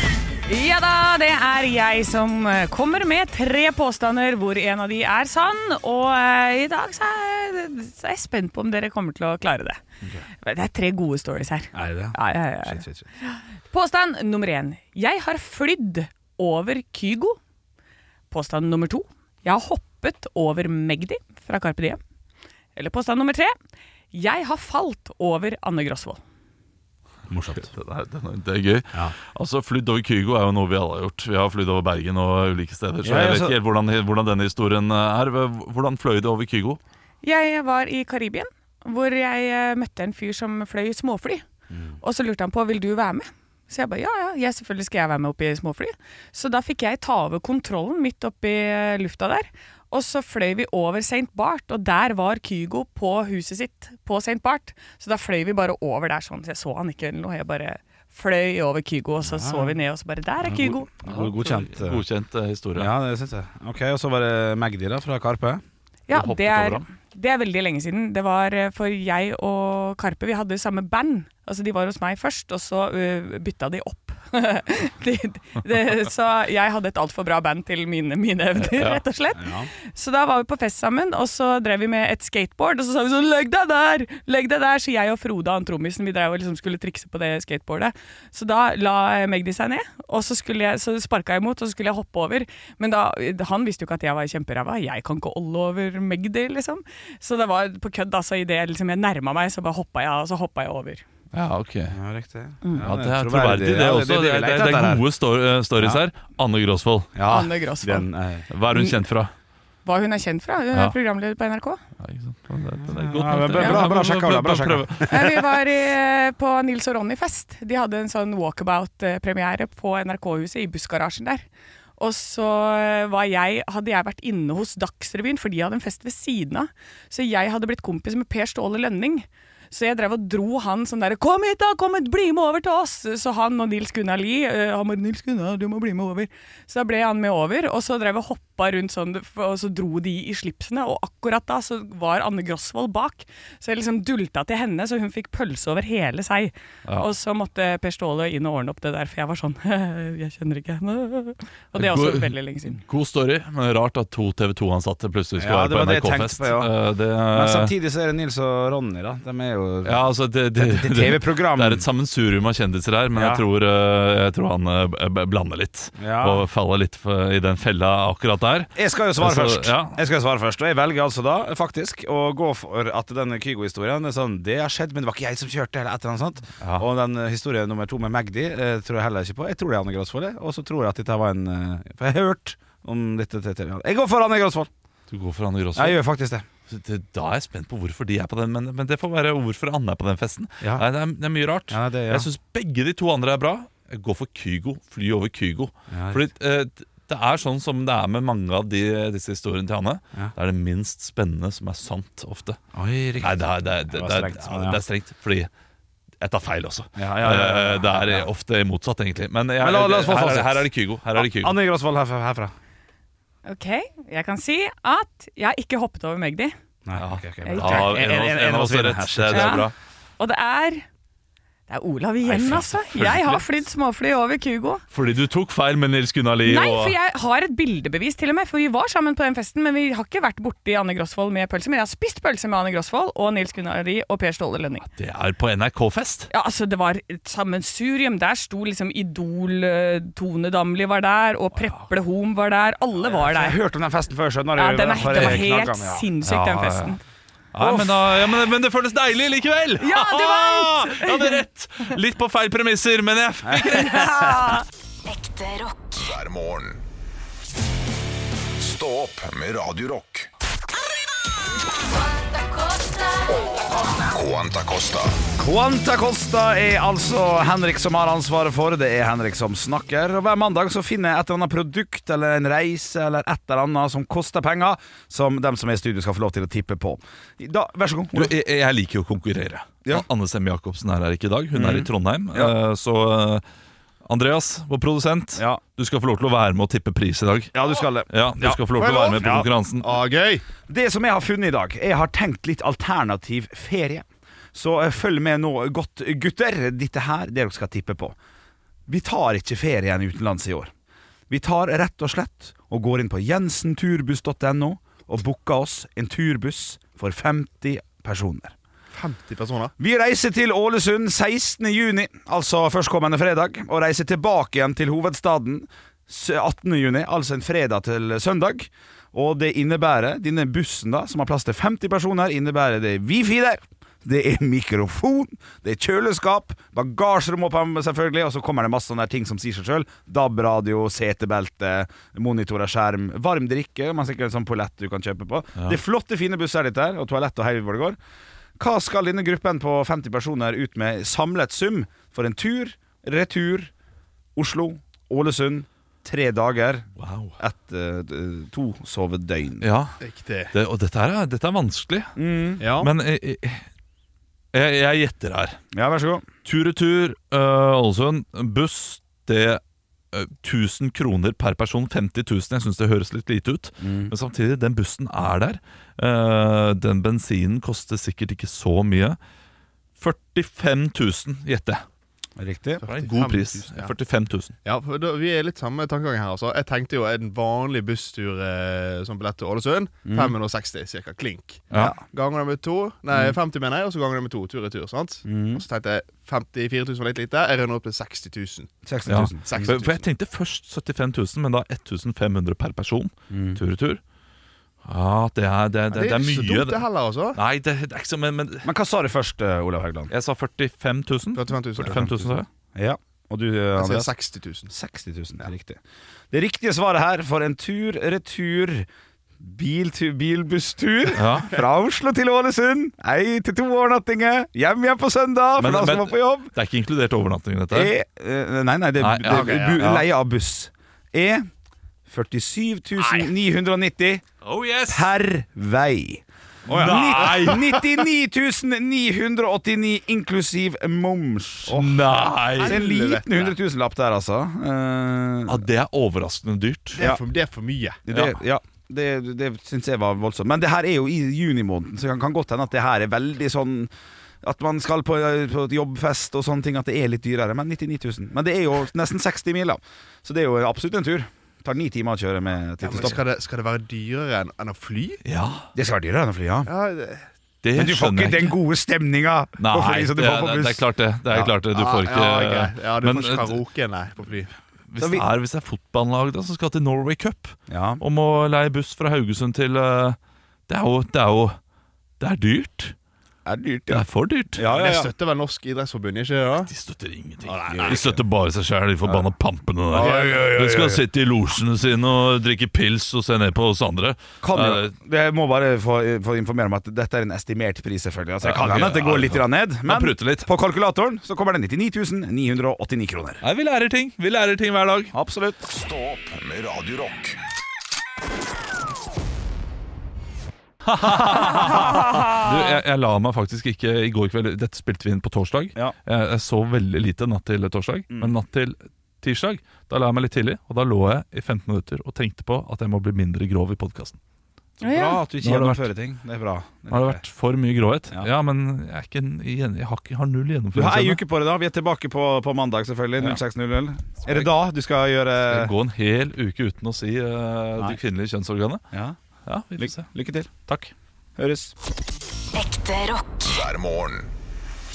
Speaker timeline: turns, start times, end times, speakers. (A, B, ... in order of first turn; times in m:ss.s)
0:00.4-0:09.8 A
0:10.4-0:17.4 A
0:11.7-0:13.1 B
0:18.3-0:22.0 A
0:22.7-0:23.5 A
0:24.1-0:26.2 A
0:27.3-0:27.7 B
0:27.6-0:36.8 C
0:33.0-0:33.6 B
0:37.2-0:41.4 A
0:41.7-0:42.0 B
0:42.0-1:00.9 A
0:59.2-0:59.8 B
1:00.4-1:02.0 B
1:01.0-1:02.9 C
1:02.7-1:05.6 B
1:06.1-1:41.0 A
1:06.1-1:06.8 C
1:18.6-1:19.0 C
1:19.4-1:19.7 B
1:41.3-1:42.0 C
1:41.9-1:45.0 B
1:42.8-1:47.1 C
1:47.2-1:48.5 B
1:47.2-1:48.0 A
1:48.5-1:49.3 C
1:48.7-1:49.0 A
1:49.8-1:51.8 A
1:52.0-1:55.4 C
1:52.9-1:55.4 B
1:53.6-1:53.8 A
1:55.1-2:01.4 A
2:02.0-2:32.8 A
2:31.7-2:37.7 C
2:35.4-2:36.7 B
2:37.3-2:41.9 B
2:39.8-2:50.0 C
2:43.1-2:43.4 B
2:46.0-2:46.4 B
2:48.8-3:04.7 B
2:56.6-2:56.9 C
3:05.1-3:06.0 C
3:05.7-3:06.4 B
3:06.7-3:22.6 C
3:11.7-3:12.3 B
3:15.9-3:16.2 B
3:22.7-3:24.8 B
3:23.2-3:25.5 C
3:26.2-3:31.6 C
3:27.0-3:28.3 B
3:29.6-3:32.5 B
3:33.4-3:36.5 A
3:36.8-3:39.7 B
3:37.0-3:39.7 C
3:37.4-3:38.0 A
3:39.3-3:39.6 A
3:40.2-3:40.8 A
3:41.7-3:44.8 A
3:42.3-3:43.4 C
3:44.9-3:47.0 C
3:46.4-3:54.9 A
3:54.9-3:56.3 C
3:56.3-4:03.6 A
4:01.5-4:01.8 C
4:03.0-4:06.1 B
4:04.6-4:07.0 A
4:05.0-4:05.4 C
4:06.2-4:07.0 C
4:07.5-4:14.3 C
4:07.6-4:08.0 A
4:09.8-4:11.4 A
4:13.4-4:14.4 B
4:13.7-4:14.6 A
4:15.0-4:16.0 D
4:15.9-4:16.8 E
4:18.6-4:20.3 E
4:22.0-4:23.5 D
4:24.1-4:25.2 E
4:25.4-4:38.3 B
4:38.1-4:43.4 C
4:41.5-4:42.5 B
4:44.0-4:47.5 C
4:45.3-4:45.6 B
4:47.5-4:48.6 B
4:48.1-4:49.9 C
4:48.8-4:50.4 F
4:49.2-4:49.4 B
4:50.7-4:58.2 B
4:58.9-5:00.7 B
5:01.3-5:08.5 B
5:08.9-5:09.7 F
5:09.8-5:38.0 B
5:38.6-5:43.7 B
5:44.4-5:46.8 B
5:47.0-5:47.4 C
5:47.4-5:49.6 B
5:49.6-5:50.0 C
5:50.0-5:50.5 F
5:50.5-5:52.1 C
5:52.2-5:52.6 B
5:52.6-5:52.9 F
5:52.8-5:53.6 C
5:54.5-5:55.6 C
5:55.7-5:56.2 B
5:56.4-5:59.6 C
6:00.1-6:09.2 C
6:03.8-6:04.1 B
6:10.0-6:11.8 C
6:12.4-6:12.8 B
6:12.8-6:13.9 F
6:12.9-6:14.5 C
6:14.6-6:28.7 F
6:20.0-6:20.3 B
6:21.7-6:22.0 B
6:25.2-6:25.6 B
6:28.8-6:29.7 B
6:29.1-6:34.0 C
6:29.4-6:30.0 F
6:33.3-6:33.6 B
6:34.8-6:36.8 C
6:35.9-6:37.4 F
6:37.3-6:38.7 C
6:38.6-6:40.1 B
6:40.1-6:42.5 C
6:41.3-6:42.3 F
6:42.7-6:44.1 B
6:43.8-6:44.7 F
6:44.7-6:45.8 B
6:46.3-6:48.9 B
6:49.4-6:56.5 B
6:51.1-6:51.5 C
6:55.6-6:57.9 C
6:57.7-7:01.5 B
6:59.0-7:00.0 C
6:59.2-6:59.9 F
7:02.1-7:04.2 B
7:04.4-7:05.1 C
7:04.9-7:12.0 B
7:06.7-7:07.7 C
7:07.2-7:07.8 F
7:11.7-7:12.8 C
7:12.6-7:13.5 F
7:12.6-7:15.6 B
7:15.5-7:17.0 C
7:16.9-7:18.0 F
7:18.0-7:23.9 B
7:18.1-7:18.4 C
7:24.4-7:33.2 B
7:32.8-7:35.2 F
7:35.2-7:35.7 C
7:35.7-7:36.7 B
7:36.6-7:37.2 F
7:37.6-7:38.6 C
7:37.7-7:41.5 B
7:39.6-7:43.6 C
7:41.7-7:44.5 F
7:44.9-7:51.6 C
7:45.0-7:45.2 B
7:47.7-7:48.0 B
7:52.2-7:52.9 C
7:53.4-7:54.0 B
7:53.9-7:54.7 C
7:54.6-7:55.1 B
7:54.6-7:56.7 F
7:56.7-8:04.9 C
7:57.4-7:58.2 F
7:57.7-7:58.2 B
7:59.9-8:00.9 F
8:04.4-8:13.4 B
8:08.4-8:10.5 C
8:13.4-8:15.1 C
8:15.1-8:15.6 B
8:15.6-8:17.4 E
8:20.8-8:34.2 C
8:21.0-8:22.0 B
8:28.1-8:28.4 B
8:34.8-8:35.2 A
8:34.8-8:37.2 B
8:35.4-8:35.9 C
8:36.9-8:41.2 C
8:40.7-8:45.7 B
8:44.2-8:44.5 C
8:45.5-8:48.8 C
8:48.9-8:49.2 B
8:49.4-8:50.1 C
8:49.8-8:50.7 B
8:50.7-8:50.9 C
8:51.4-8:51.7 B
8:52.5-8:53.4 D
8:53.4-8:54.3 E